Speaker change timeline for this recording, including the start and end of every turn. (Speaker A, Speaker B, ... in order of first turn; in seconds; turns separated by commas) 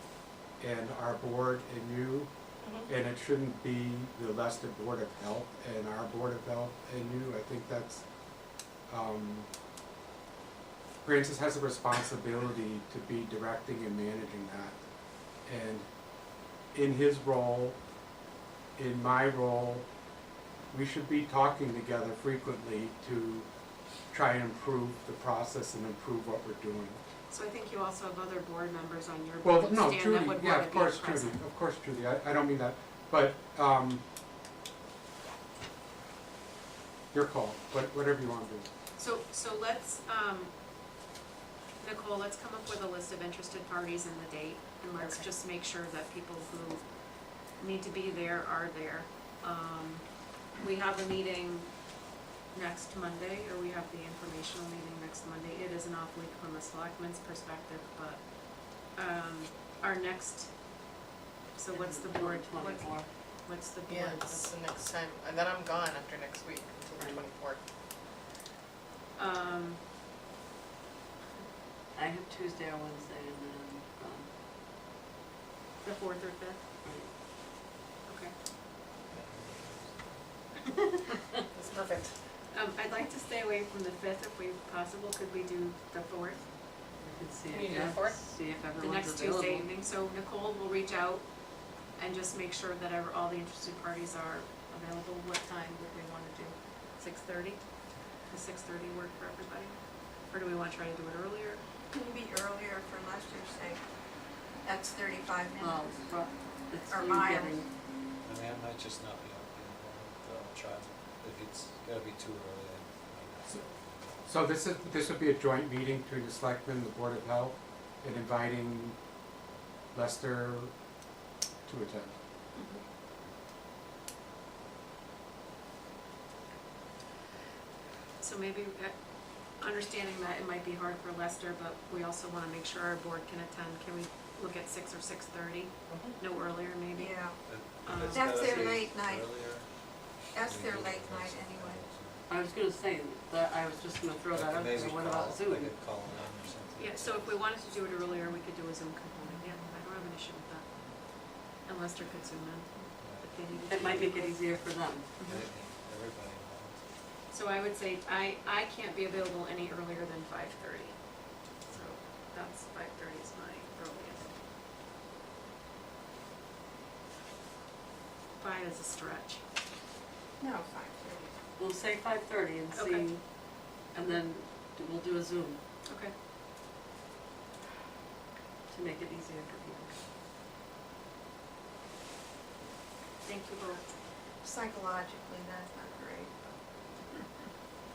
Speaker A: 0.6-2.3, Speaker B: 2.6-2.9, Speaker A: 2.9-8.0, Speaker A: 8.9-9.5, Speaker A: 11.0-14.8, Speaker A: 15.4-15.9, Speaker A: 16.7-17.8, Speaker A: 18.8-19.9, Speaker A: 20.7-23.5, Speaker A: 24.1-27.0, Speaker C: 27.3-31.4, Speaker A: 29.4-34.0, Speaker A: 37.1-38.7, Speaker C: 39.0-40.5, Speaker C: 41.8-46.8, Speaker C: 47.6-50.0, Speaker C: 50.6-51.7, Speaker C: 52.5-60.5, Speaker C: 61.5-64.5, Speaker D: 61.7-63.1, Speaker B: 63.9-67.6, Speaker C: 69.2-69.8, Speaker D: 71.9-74.3, Speaker C: 75.8-76.6, Speaker D: 76.8-77.1, Speaker C: 78.0-78.3, Speaker E: 79.3-80.2, Speaker B: 81.5-82.1, Speaker C: 82.5-86.4, Speaker D: 87.0-89.7, Speaker B: 87.5-88.2, Speaker C: 88.8-91.3, Speaker C: 92.0-97.6, Speaker C: 98.3-99.8, Speaker C: 100.3-101.6, Speaker F: 101.9-103.8, Speaker F: 104.6-106.1, Speaker D: 105.6-107.7, Speaker F: 106.9-107.6, Speaker E: 108.2-114.2, Speaker A: 114.2-119.0, Speaker A: 119.9-120.7, Speaker A: 121.7-122.2, Speaker C: 122.5-122.8, Speaker C: 128.2-128.9, Speaker C: 129.6-137.3, Speaker B: 135.9-136.2, Speaker F: 136.9-137.4, Speaker E: 137.4-139.7, Speaker C: 137.8-138.8, Speaker F: 138.1-139.3, Speaker F: 140.3-141.8, Speaker E: 140.4-142.2, Speaker D: 142.3-145.7, Speaker E: 144.3-147.4, Speaker C: 146.8-150.7, Speaker C: 151.7-154.4, Speaker E: 153.0-154.0, Speaker D: 153.6-155.1, Speaker E: 155.2-156.8, Speaker C: 157.3-161.0, Speaker C: 161.7-164.3, Speaker C: 168.4-169.4, Speaker F: 170.4-171.3, Speaker D: 171.6-173.2, Speaker C: 172.7-173.1, Speaker D: 173.9-175.6, Speaker C: 175.9-176.1, Speaker D: 178.7-180.0, Speaker C: 183.2-183.8, Speaker F: 184.4-186.6